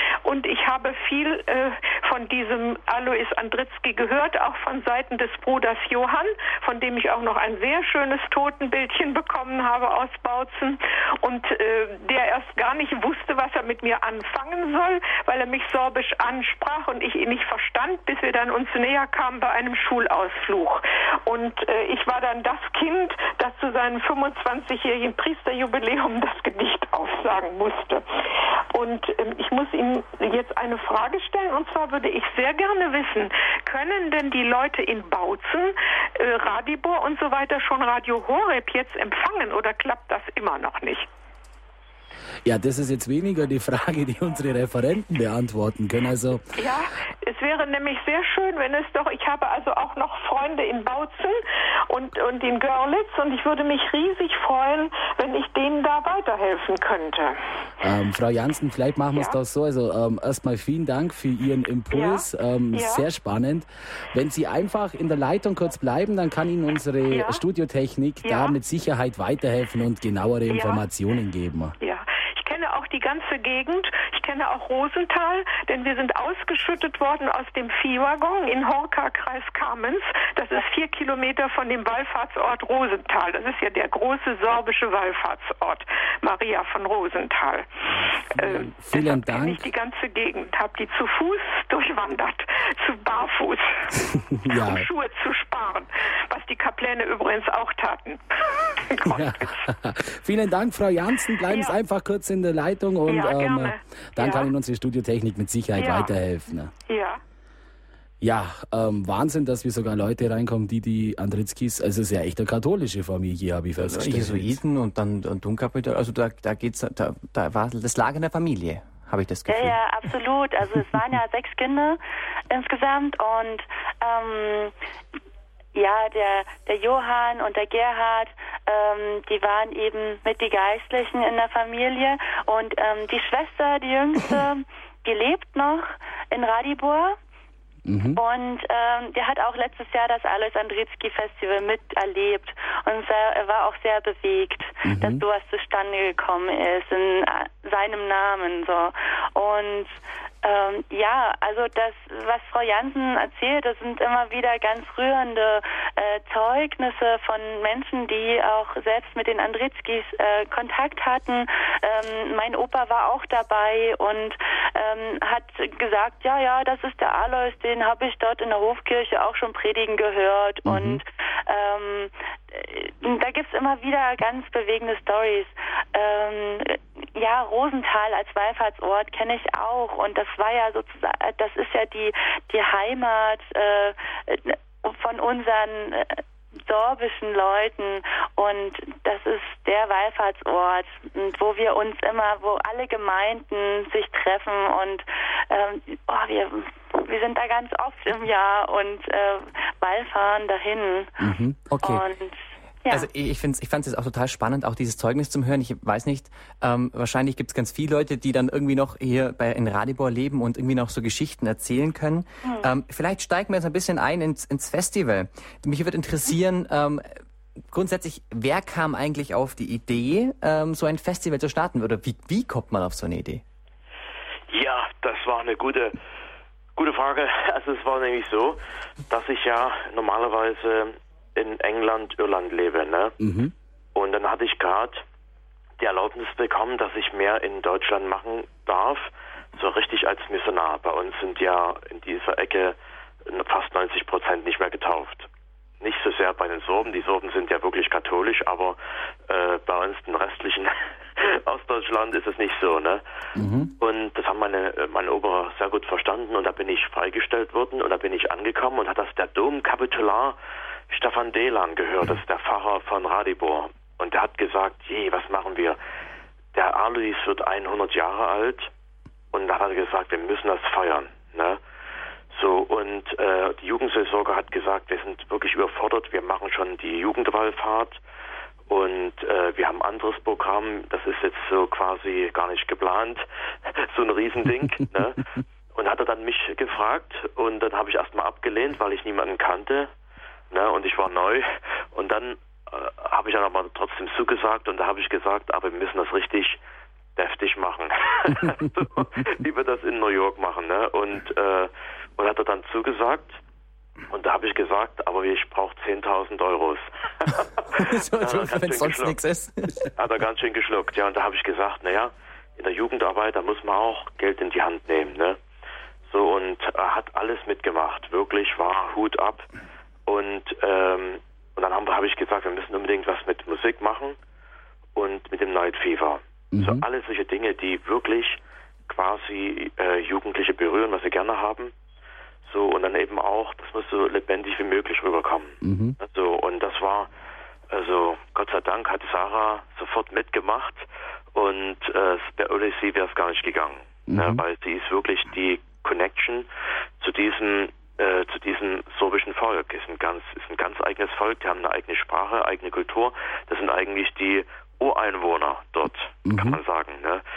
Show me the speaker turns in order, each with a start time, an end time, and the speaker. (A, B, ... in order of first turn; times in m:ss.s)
0:00.2-0:28.0 A
0:28.7-0:41.1 A
0:42.4-0:46.6 B
0:46.6-0:57.4 A
0:57.8-1:11.8 B
1:01.9-1:03.1 A
1:07.1-1:07.4 A
1:08.2-1:08.6 A
1:10.5-1:10.8 A
1:11.8-1:27.7 A
1:27.9-1:29.6 B
1:28.3-1:39.6 A
1:34.3-1:34.9 B
1:39.0-1:46.7 B
1:41.4-1:41.8 A
1:43.1-1:44.5 A
1:45.8-1:46.1 A
1:46.9-1:47.2 A
1:48.2-1:54.6 B
1:53.8-1:59.8 C
1:59.5-2:02.0 D
2:02.5-2:04.7 D
2:05.7-2:17.2 D
2:17.9-2:18.2 B
2:18.2-3:21.1 D
2:24.8-2:25.2 B
2:50.6-2:51.0 B
3:21.2-3:22.0 B
3:21.8-3:23.1 D
3:22.9-3:37.1 C
3:37.7-3:43.4 C
3:44.5-3:46.0 E
3:46.8-3:53.1 E
3:53.2-3:53.5 B
3:53.9-3:55.0 E
3:55.8-4:05.3 E
4:05.8-4:13.0 E
4:13.4-4:13.7 B
4:13.8-4:20.4 E
4:20.9-4:25.8 E
4:26.5-4:28.7 E
4:29.3-4:31.6 E
4:32.3-4:38.0 E
4:38.7-4:49.9 E
4:50.5-4:56.6 E
4:57.2-5:03.4 E
5:04.1-5:09.2 E
5:07.7-5:09.9 C
5:10.0-5:15.4 E
5:16.1-5:19.5 E
5:20.1-5:24.2 E
5:24.9-5:31.7 E
5:26.5-5:26.8 B
5:32.4-5:37.1 E
5:35.6-5:36.0 B
5:37.7-5:46.5 E
5:44.1-5:44.4 B
5:47.0-5:57.2 E
5:56.2-5:56.6 B